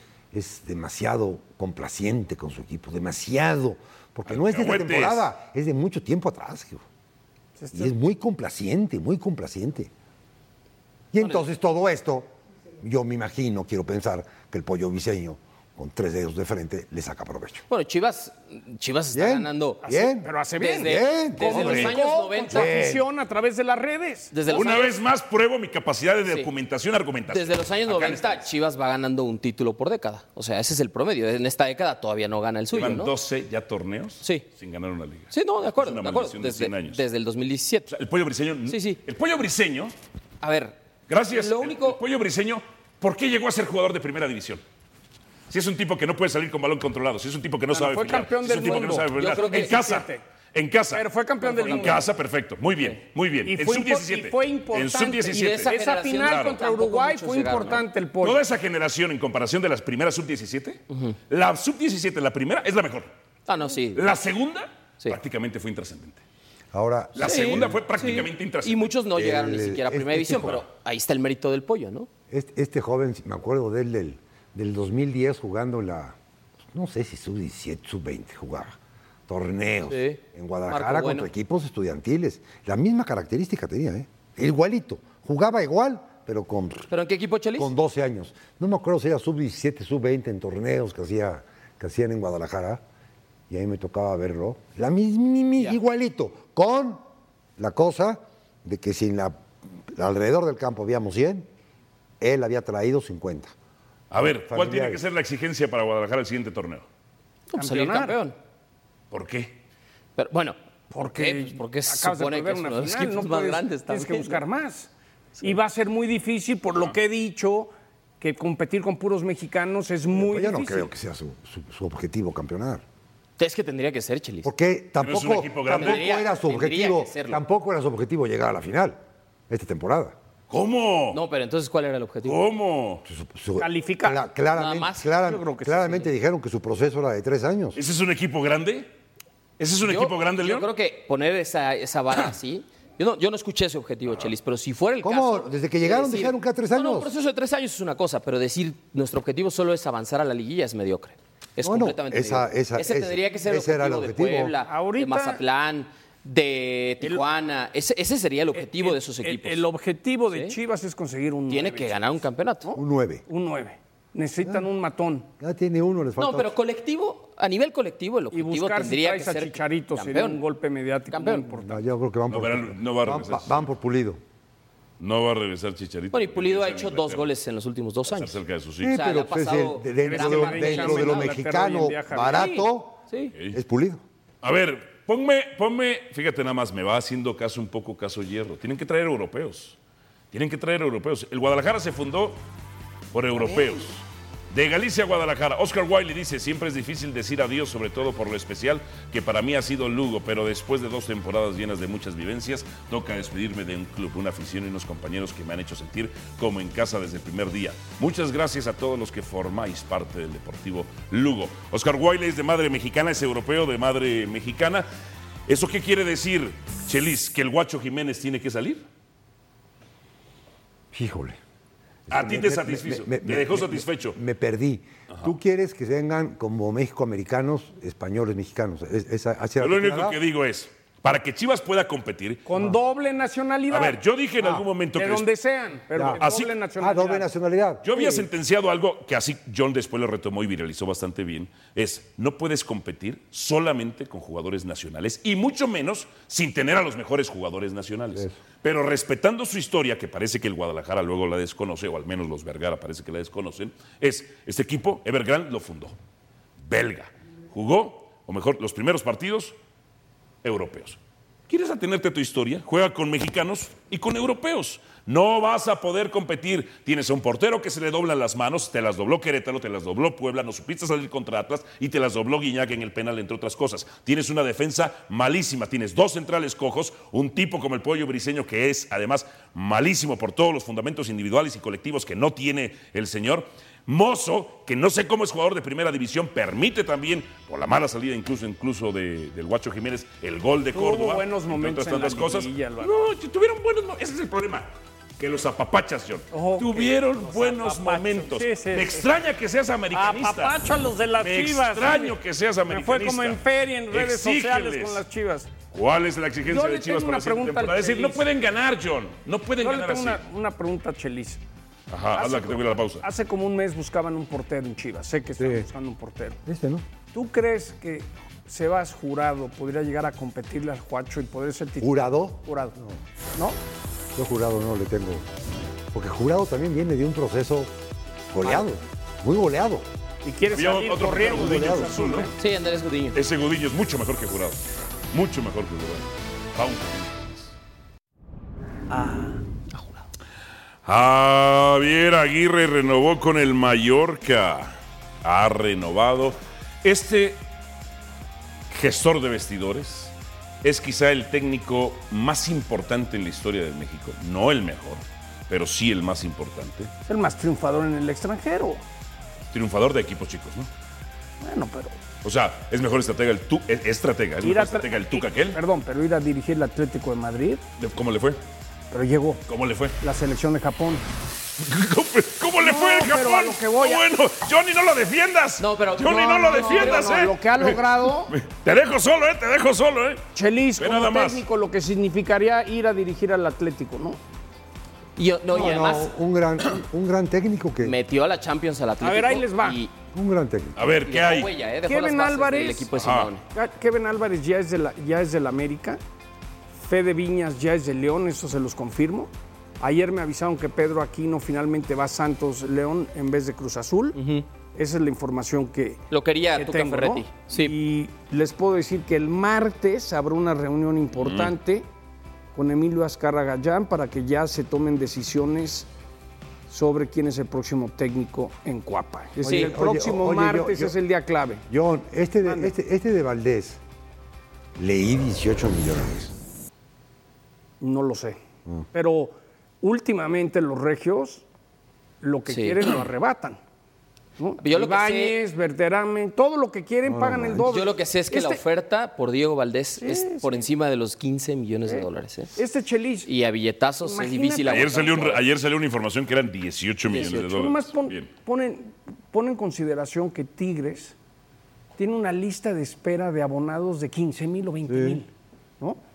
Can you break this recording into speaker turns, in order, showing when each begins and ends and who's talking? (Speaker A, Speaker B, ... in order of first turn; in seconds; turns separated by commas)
Speaker A: 0.3-6.8, Speaker B: 4.3-5.3, Speaker C: 7.6-7.9, Speaker A: 7.7-9.9, Speaker A: 11.1-17.6, Speaker D: 17.7-19.8, Speaker A: 19.1-23.0, Speaker C: 19.8-24.3, Speaker D: 20.6-22.7, Speaker D: 24.3-25.0, Speaker B: 24.5-28.4, Speaker D: 27.3-33.1, Speaker B: 32.7-37.0, Speaker D: 35.3-37.9, Speaker B: 37.9-39.9, Speaker D: 38.7-39.0, Speaker D: 40.4-42.0, Speaker B: 41.1-44.6, Speaker B: 45.5-51.1, Speaker C: 47.7-50.2, Speaker D: 48.6-49.7, Speaker C: 50.9-52.0, Speaker D: 51.4-52.0, Speaker B: 51.6-56.6, Speaker C: 53.5-58.4, Speaker D: 55.3-57.8, Speaker B: 58.2-63.1, Speaker D: 60.9-61.1, Speaker D: 63.5-64.0, Speaker B: 63.9-66.2, Speaker A: 66.7-67.8, Speaker B: 67.1-68.9, Speaker D: 67.2-72.1, Speaker A: 69.1-70.6, Speaker A: 72.3-76.2, Speaker A: 76.7-78.8, Speaker A: 79.3-86.9, Speaker D: 79.9-81.3, Speaker D: 86.9-87.7, Speaker A: 87.5-92.8, Speaker A: 93.5-97.0, Speaker A: 97.6-101.5, Speaker A: 102.2-103.5, Speaker B: 104.1-106.8, Speaker A: 104.5-105.0, Speaker D: 107.5-108.4, Speaker C: 107.5-108.2, Speaker B: 109.1-109.5, Speaker D: 110.2-114.4, Speaker C: 110.9-114.9, Speaker C: 115.4-120.9, Speaker A: 120.1-122.8, Speaker D: 123.4-124.5, Speaker A: 124.4-130.1, Speaker B: 125.0-126.1, Speaker D: 125.7-127.4, Speaker B: 130.5-131.2, Speaker D: 131.1-132.4, Speaker B: 132.2-133.0, Speaker A: 133.1-137.8, Speaker C: 133.6-134.2, Speaker D: 134.5-135.1, Speaker C: 135.2-136.1, Speaker B: 137.7-138.9, Speaker B: 139.6-140.7, Speaker D: 139.8-159.6, Speaker A: 145.0-147.1, Speaker A: 151.6-154.5, Speaker C: 154.6-155.4, Speaker C: 158.5-162.0, Speaker D: 160.3-160.6, Speaker D: 161.5-162.7, Speaker C: 162.7-165.3, Speaker A: 162.7-163.2, Speaker A: 165.4-166.6, Speaker D: 166.2-170.4, Speaker C: 168.3-171.8, Speaker D: 171.1-171.5, Speaker A: 171.6-174.2, Speaker B: 172.3-173.7, Speaker B: 175.0-177.3, Speaker D: 176.1-181.3, Speaker B: 178.1-178.9, Speaker A: 178.8-184.0, Speaker C: 180.0-182.6, Speaker D: 182.3-183.3, Speaker B: 184.4-189.8, Speaker B: 190.3-192.4, Speaker B: 193.1-214.9, Speaker B: 215.5-218.8, Speaker A: 220.9-221.4, Speaker A: 222.1-230.2, Speaker B: 222.1-224.2, Speaker B: 229.6-232.4, Speaker C: 232.4-234.0, Speaker B: 233.7-235.3, Speaker A: 234.4-234.7, Speaker C: 234.9-237.2, Speaker A: 235.9-236.2, Speaker B: 236.2-236.5, Speaker A: 236.8-238.2, Speaker B: 237.8-255.9, Speaker B: 256.6-259.6, Speaker B: 260.4-300.5, Speaker C: 290.7-292.9, Speaker C: 296.3-299.1, Speaker C: 299.9-302.1, Speaker B: 301.2-305.0, Speaker C: 302.7-305.5, Speaker B: 305.7-310.2, Speaker C: 306.4-308.2, Speaker C: 309.6-311.4, Speaker B: 311.9-313.0, Speaker C: 312.1-316.4, Speaker A: 315.4-315.7, Speaker A: 316.4-316.8, Speaker C: 317.1-322.7, Speaker A: 321.8-323.0, Speaker A: 324.1-325.2, Speaker A: 325.9-327.7, Speaker A: 328.3-329.9, Speaker C: 330.2-332.3, Speaker B: 330.5-332.3, Speaker A: 331.2-332.1, Speaker D: 332.4-333.2, Speaker B: 333.1-334.6, Speaker B: 335.1-337.5, Speaker D: 339.7-340.0, Speaker B: 340.9-347.4, Speaker B: 348.7-356.9, Speaker C: 357.1-358.8, Speaker B: 359.5-360.7, Speaker C: 361.4-361.9, Speaker B: 362.2-365.6, Speaker C: 364.4-367.6, Speaker B: 367.8-368.4, Speaker C: 368.9-369.4, Speaker B: 369.5-370.0, Speaker C: 370.0-371.0, Speaker B: 371.6-380.2, Speaker C: 372.6-374.0, Speaker D: 375.6-377.1, Speaker C: 376.1-378.3, Speaker C: 380.3-384.2, Speaker B: 380.8-381.4, Speaker D: 385.2-386.1, Speaker A: 385.5-387.9, Speaker D: 387.8-389.9, Speaker C: 389.0-389.8, Speaker A: 390.1-390.9, Speaker B: 390.8-391.5, Speaker D: 391.1-393.4, Speaker C: 391.8-392.9, Speaker B: 393.0-393.3, Speaker C: 393.5-396.0, Speaker C: 396.8-404.2, Speaker D: 404.1-404.4, Speaker C: 404.7-411.9, Speaker D: 406.1-407.7, Speaker B: 411.2-411.5, Speaker C: 412.5-415.9, Speaker C: 416.7-421.6, Speaker A: 419.4-421.0, Speaker D: 419.4-419.7, Speaker A: 421.7-423.8, Speaker C: 422.4-422.7, Speaker A: 424.8-426.3, Speaker C: 427.8-428.4, Speaker C: 428.9-431.4, Speaker C: 432.2-433.6, Speaker D: 432.4-432.8, Speaker C: 434.4-438.6, Speaker D: 434.6-435.4, Speaker A: 437.0-437.6, Speaker D: 437.6-442.6, Speaker C: 440.0-440.7, Speaker C: 442.6-443.3, Speaker D: 443.2-445.4, Speaker C: 444.0-445.1, Speaker B: 444.6-448.3, Speaker D: 447.1-447.4, Speaker C: 447.1-451.1, Speaker C: 452.0-455.3, Speaker A: 454.9-455.2